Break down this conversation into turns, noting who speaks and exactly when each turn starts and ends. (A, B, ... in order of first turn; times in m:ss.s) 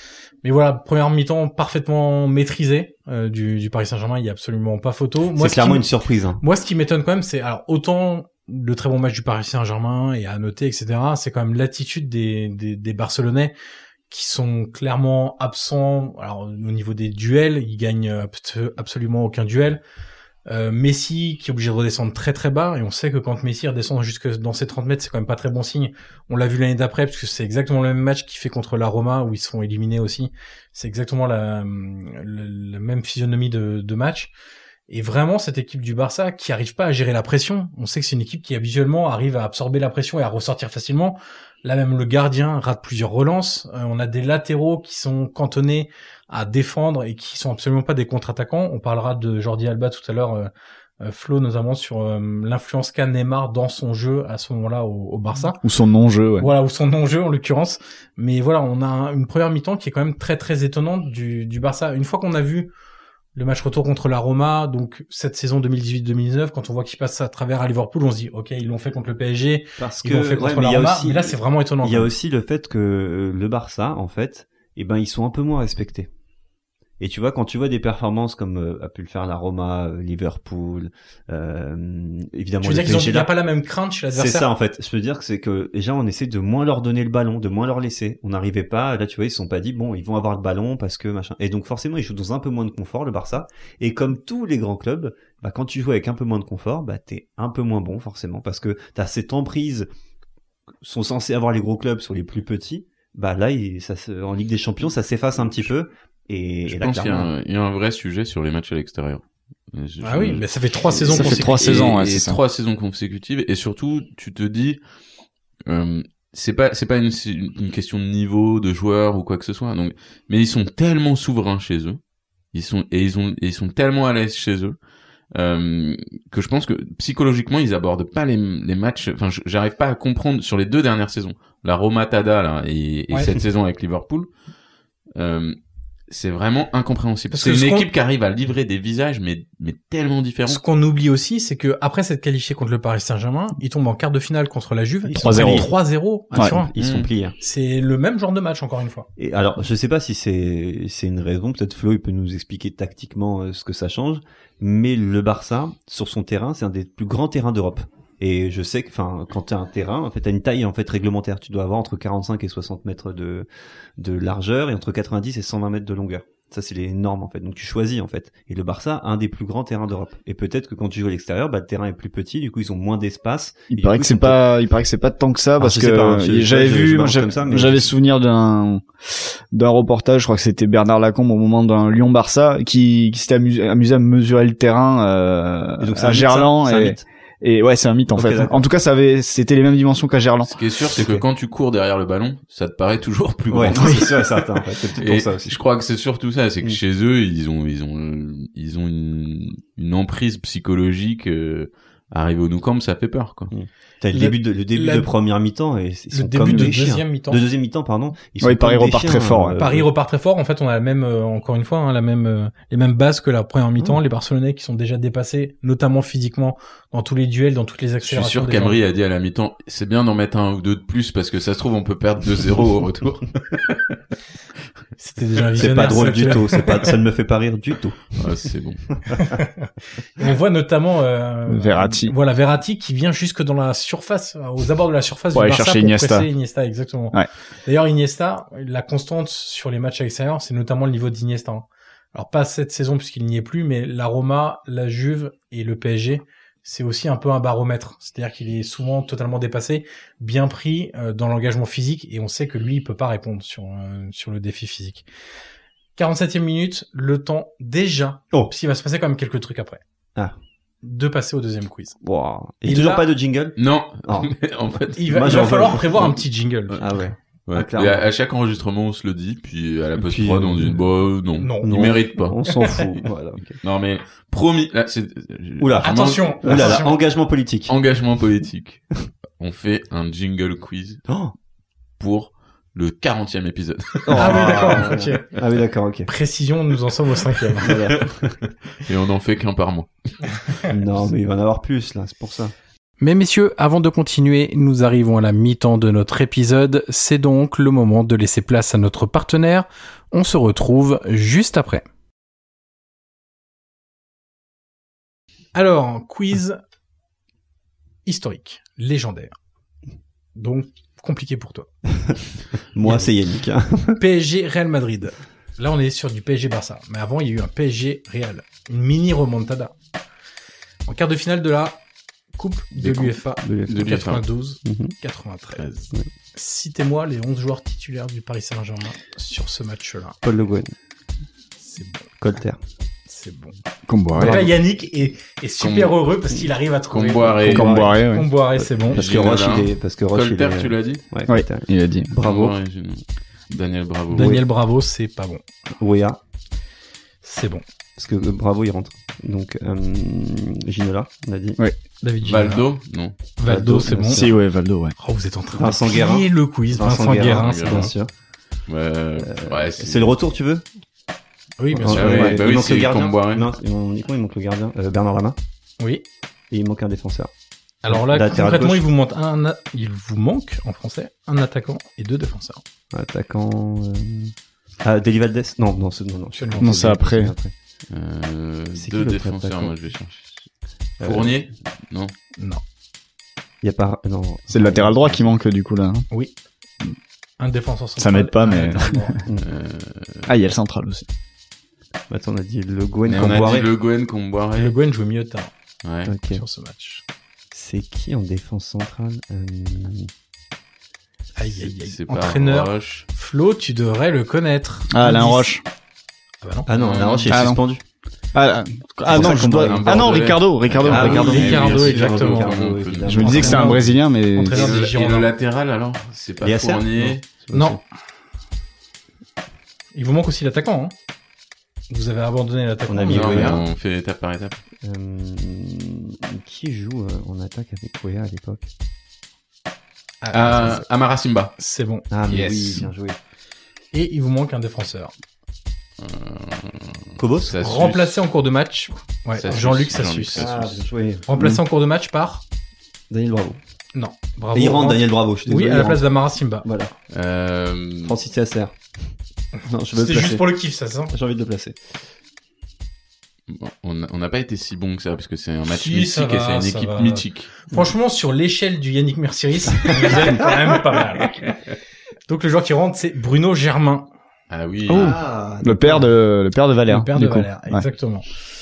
0:00.4-0:05.9 A
0:05.4-0:06.4 B
0:06.4-0:13.5 A
0:14.1-0:19.8 A
0:20.5-0:34.3 A
0:34.9-0:55.6 A
0:55.6-0:56.5 C
0:56.4-1:02.7 A
1:03.4-1:12.1 A
1:09.8-1:16.1 B
1:17.0-1:23.3 B
1:22.6-1:24.5 A
1:24.2-1:39.9 B
1:40.8-1:47.3 B
1:46.7-1:54.8 D
1:50.0-1:51.6 A
1:51.1-1:52.4 C
1:55.7-2:02.0 D
2:02.5-2:04.8 D
2:05.3-2:14.3 D
2:15.2-2:15.6 D
2:16.1-2:20.6 D
2:17.3-2:17.9 A
2:20.5-2:26.7 A
2:25.1-2:25.7 B
2:25.2-2:25.7 C
2:26.3-2:27.4 B
2:26.8-2:27.1 D
2:27.4-2:29.1 A
2:29.2-2:54.4 B
2:53.7-2:58.8 C
2:55.6-2:57.9 B
2:59.5-3:10.5 C
3:05.8-3:07.0 B
3:08.2-3:08.6 B
3:10.5-3:23.5 D
3:11.0-3:11.2 B
3:13.5-3:15.6 B
3:13.8-3:14.1 C
3:23.5-3:29.9 B
3:24.1-3:25.1 A
3:26.1-3:27.4 A
3:28.4-3:29.6 C
3:29.6-3:38.8 A
3:38.0-3:44.0 D
3:45.0-3:46.9 A
3:45.6-3:48.2 B
3:48.2-3:49.0 D
3:49.2-4:15.1 A
3:51.5-3:52.1 C
3:55.3-3:56.3 C
4:16.0-4:19.8 A
4:20.8-4:22.0 A
4:22.0-4:24.3 B
4:22.6-4:23.1 A
4:23.6-4:26.2 D
4:25.0-4:27.0 A
4:25.0-4:26.1 B
4:26.8-4:28.0 B
4:27.5-4:32.4 D
4:30.0-4:30.8 B
4:31.4-4:31.8 A
4:31.6-4:33.6 B
4:33.6-4:36.9 D
4:35.6-4:37.7 B
4:35.8-4:37.0 A
4:37.7-4:41.0 D
4:41.1-4:41.3 B
4:42.0-4:45.0 D
4:44.0-4:46.1 B
4:44.2-4:45.3 A
4:46.1-4:47.8 A
4:47.6-4:48.4 B
4:48.8-4:49.9 D
4:50.7-4:52.5 B
4:53.0-5:01.8 A
5:05.5-5:06.6 A
5:08.1-5:09.3 A
5:10.4-5:11.7 A
5:12.7-5:14.0 B
5:12.8-5:13.1 A
5:14.0-5:19.7 A
5:20.9-5:21.8 A
5:22.4-5:30.2 A
5:22.8-5:23.9 B
5:23.7-5:24.2 D
5:24.6-5:25.0 B
5:30.2-5:30.7 B
5:31.6-5:32.1 A
5:32.2-5:32.6 B
5:33.1-5:33.6 A
5:33.9-5:34.4 C
5:34.1-5:39.0 A
5:34.2-5:34.5 B
5:35.6-5:36.0 D
5:36.9-5:37.9 D
5:37.5-5:38.0 B
5:37.5-5:38.3 C
5:38.8-5:42.6 B
5:38.9-5:41.0 D
5:41.3-5:42.1 C
5:42.2-5:44.4 D
5:44.1-5:45.4 A
5:44.1-5:44.4 B
5:45.8-5:46.2 B
5:47.2-5:47.6 A
5:48.0-5:51.6 B
5:52.0-5:52.7 A
5:52.2-5:53.2 D
5:53.4-5:54.3 A
5:53.5-5:54.3 B
5:54.1-5:54.9 C
5:55.0-5:57.9 A
5:55.6-5:58.1 B
5:57.2-5:57.9 D
5:58.7-6:00.1 D
5:59.2-6:00.6 B
6:01.6-6:02.4 A
6:01.7-6:05.4 B
6:01.9-6:03.5 D
6:06.5-6:07.3 B
6:07.8-6:12.6 A
6:07.9-6:08.8 B
6:12.9-6:17.5 B
6:16.3-6:16.7 A
6:16.6-6:17.4 C
6:17.9-6:20.5 D
6:18.8-6:19.7 B
6:21.0-6:22.1 D
6:21.0-6:21.4 B
6:22.4-6:22.6 A
6:23.6-6:25.3 B
6:24.5-6:26.1 C
6:27.4-6:29.2 A
6:28.0-6:29.2 C
6:29.4-6:30.3 D
6:30.3-6:31.1 C
6:32.1-6:33.7 B
6:33.1-6:34.7 D
6:34.6-6:35.5 A
6:35.8-6:36.1 D
6:36.1-6:36.4 B
6:36.2-6:37.0 A
6:37.5-6:40.1 B
6:41.4-6:45.5 A
6:41.6-6:43.1 D
6:44.9-6:45.6 C
6:46.4-6:46.7 A
6:46.7-6:47.8 B
6:46.7-6:47.5 D
6:47.3-6:47.6 C
6:48.3-6:51.6 C
6:49.0-6:50.2 B
6:49.1-6:53.6 D
6:50.9-6:54.0 B
6:51.0-6:52.6 A
6:53.1-6:54.7 C
6:53.2-6:55.3 A
6:54.5-6:57.2 D
6:56.4-6:57.8 B
6:57.5-6:57.8 A
7:00.0-7:00.9 A
7:01.9-7:03.6 A
7:02.9-7:03.7 B
7:03.1-7:04.6 D
7:04.8-7:08.7 B
7:10.2-7:10.9 A
7:10.3-7:11.6 D
7:11.6-7:12.1 A
7:12.1-7:13.2 B
7:12.3-7:12.9 D
7:13.9-7:15.1 A
7:16.0-7:18.2 D
7:17.2-7:17.6 B
7:17.6-7:20.6 A
7:19.4-7:20.8 D
7:20.4-7:21.5 B
7:21.3-7:22.4 A
7:23.1-7:23.6 B
7:23.9-7:26.7 A
7:24.5-7:26.0 B
7:26.6-7:26.9 B
7:27.1-7:28.2 D
7:28.0-7:28.8 B
7:29.6-7:30.5 B
7:29.9-7:31.1 A
7:31.1-7:31.8 B
7:33.5-7:37.5 D
7:35.6-7:41.5 A
7:42.3-7:44.1 A
7:44.5-7:45.2 D
7:44.9-7:46.1 B
7:44.9-7:47.8 C
7:46.9-7:48.3 A